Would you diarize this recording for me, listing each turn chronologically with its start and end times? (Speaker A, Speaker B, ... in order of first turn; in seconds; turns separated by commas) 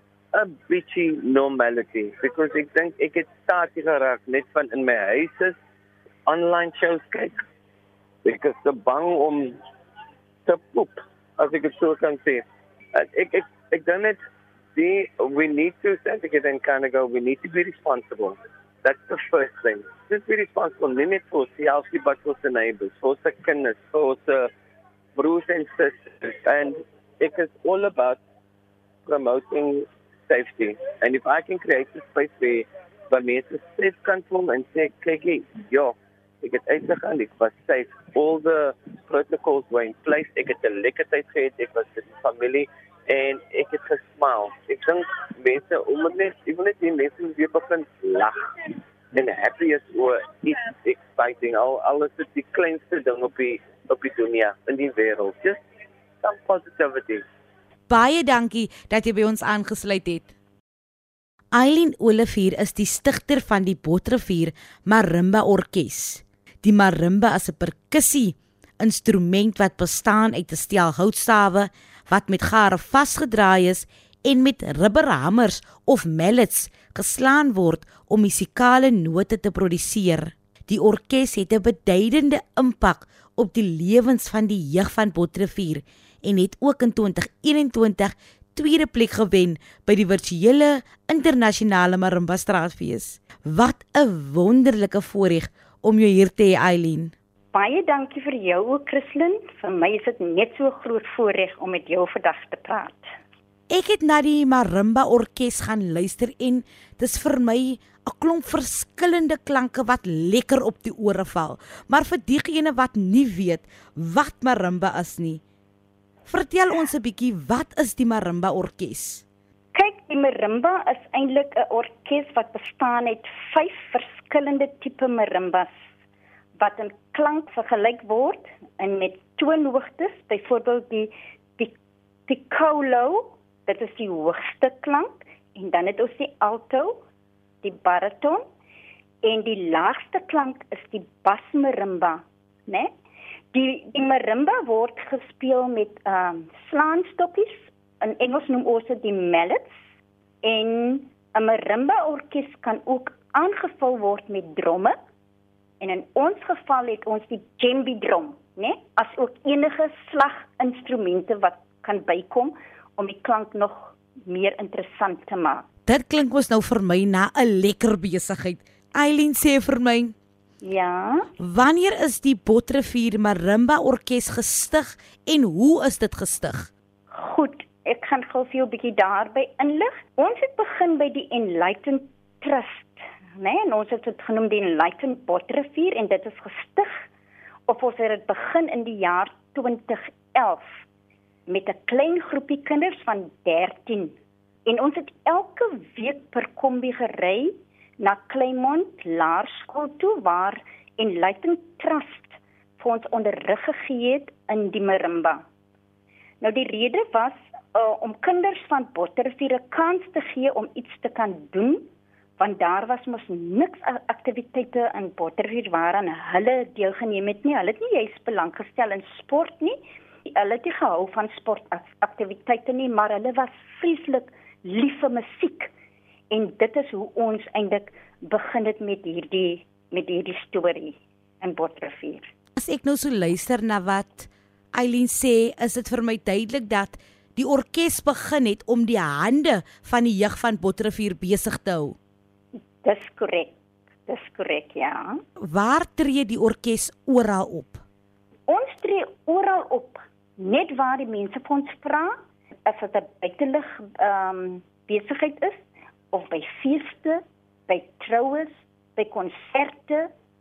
Speaker A: 0.3-5.5, Speaker A: 6.3-7.4, Speaker A: 8.2-9.5, Speaker A: 10.4-12.4, Speaker A: 12.9-14.2, Speaker A: 14.7-24.5, Speaker A: 25.1-28.2, Speaker A: 29.1-48.4, Speaker A: 49.1-55.6, Speaker A: 56.2-57.2, Speaker B: 57.9-60.3, Speaker B: 61.5-97.1, Speaker C: 97.5-103.1, Speaker B: 103.7-115.4, Speaker B: 116.3-119.2, Speaker C: 119.7-125.7, Speaker C: 126.6-131.7, Speaker C: 132.3-137.0, Speaker C: 137.6-138.4, Speaker C: 139.2-142.9, Speaker C: 143.5-149.8, Speaker C: 150.4-154.9, Speaker C: 155.8-165.6, Speaker B: 165.9-170.1, Speaker C: 170.6-171.3, Speaker B: 171.4-176.7, Speaker C: 177.1-187.0, Speaker C: 187.7-190.6, Speaker C: 191.5-205.4, Speaker C: 206.4-211.8, Speaker C: 212.4-225.7, Speaker C: 226.3-232.2, Speaker B: 232.6-242.0, Speaker C: 242.8-243.5, Speaker C: 244.1-245.2, Speaker B: 245.4-247.8, Speaker C: 248.5-252.1, Speaker C: 252.7-255.6, Speaker C: 256.1-260.1